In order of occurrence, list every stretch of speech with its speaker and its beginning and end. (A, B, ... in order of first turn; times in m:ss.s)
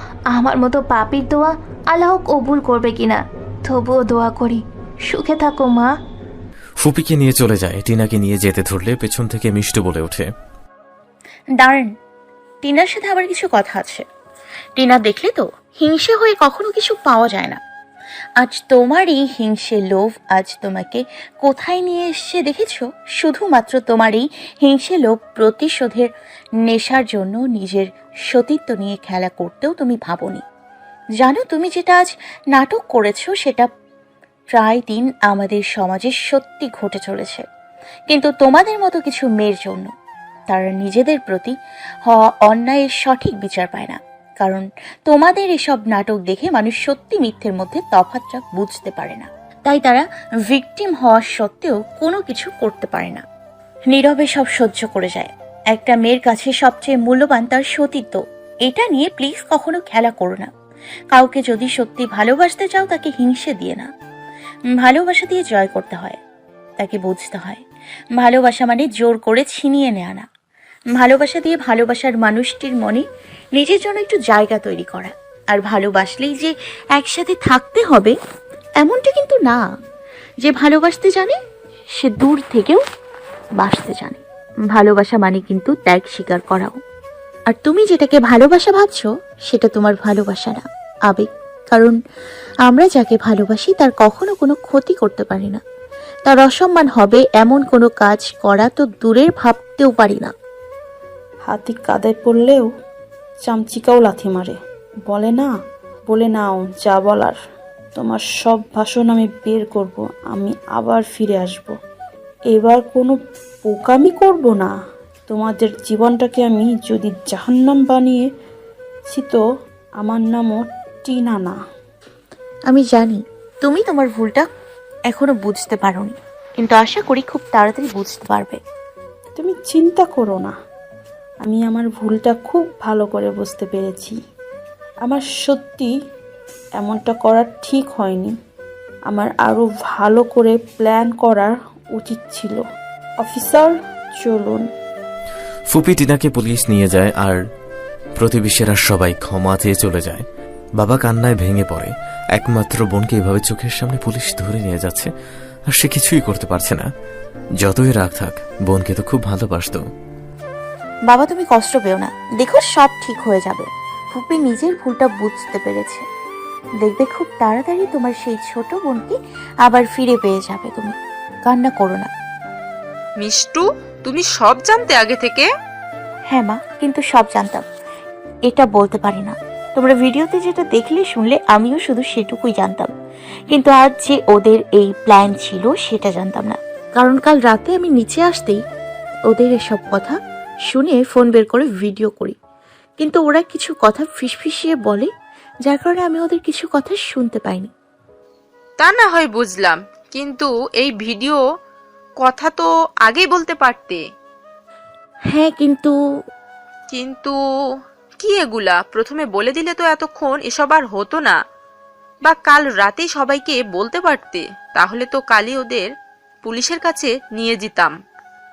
0:00.3-0:05.9 A
0:06.8-0:10.3 B
0:11.6-0:11.9 C
0:12.6-0:14.0 C
0:14.8-0:17.6 C
0:18.4-0:26.1 C
0:26.6-0:30.4 C
0:31.2-0:33.7 C
0:34.5-0:37.5 C
0:38.1-0:39.9 C
0:40.5-0:53.2 C
0:53.9-1:00.5 C
1:01.1-1:03.9 C
1:04.7-1:06.2 C
1:06.8-1:07.6 C
1:08.2-1:10.3 C
1:11.0-1:18.2 C
1:18.8-1:19.6 C
1:20.4-1:21.4 C
1:22.0-1:22.8 C
1:23.6-1:24.2 C
1:24.7-1:26.8 C
1:27.5-1:32.0 C
1:32.7-1:35.6 C
1:36.3-1:40.3 C
1:41.5-1:42.7 D
1:43.4-1:44.6 D
1:45.1-1:45.5 D
1:46.1-1:47.4 D
1:48.0-1:51.8 D
1:52.5-1:54.7 D
1:55.3-1:58.3 D
1:59.1-1:59.4 D
2:00.0-2:01.6 D
2:02.7-2:04.5 C
2:05.1-2:08.6 C
2:09.4-2:10.5 D
2:11.4-2:14.2 D
2:15.0-2:15.9 D
2:16.8-2:18.4 D
2:19.1-2:22.6 D
2:23.2-2:24.7 D
2:25.7-2:27.4 B
2:28.2-2:30.3 B
2:30.8-2:35.1 B
2:35.7-2:36.9 B
2:37.6-2:39.8 B
2:41.1-2:46.0 C
2:46.8-2:51.0 C
2:51.5-2:52.1 C
2:53.2-2:55.5 E
2:56.3-2:57.6 C
2:58.5-3:02.9 C
3:03.5-3:08.6 C
3:09.3-3:12.4 C
3:13.0-3:15.1 C
3:15.7-3:17.7 C
3:18.8-3:21.4 E
3:22.2-3:24.0 E
3:25.3-3:25.9 C
3:26.9-3:27.4 E
3:28.2-3:31.4 E
3:32.2-3:35.9 E
3:36.4-3:38.0 E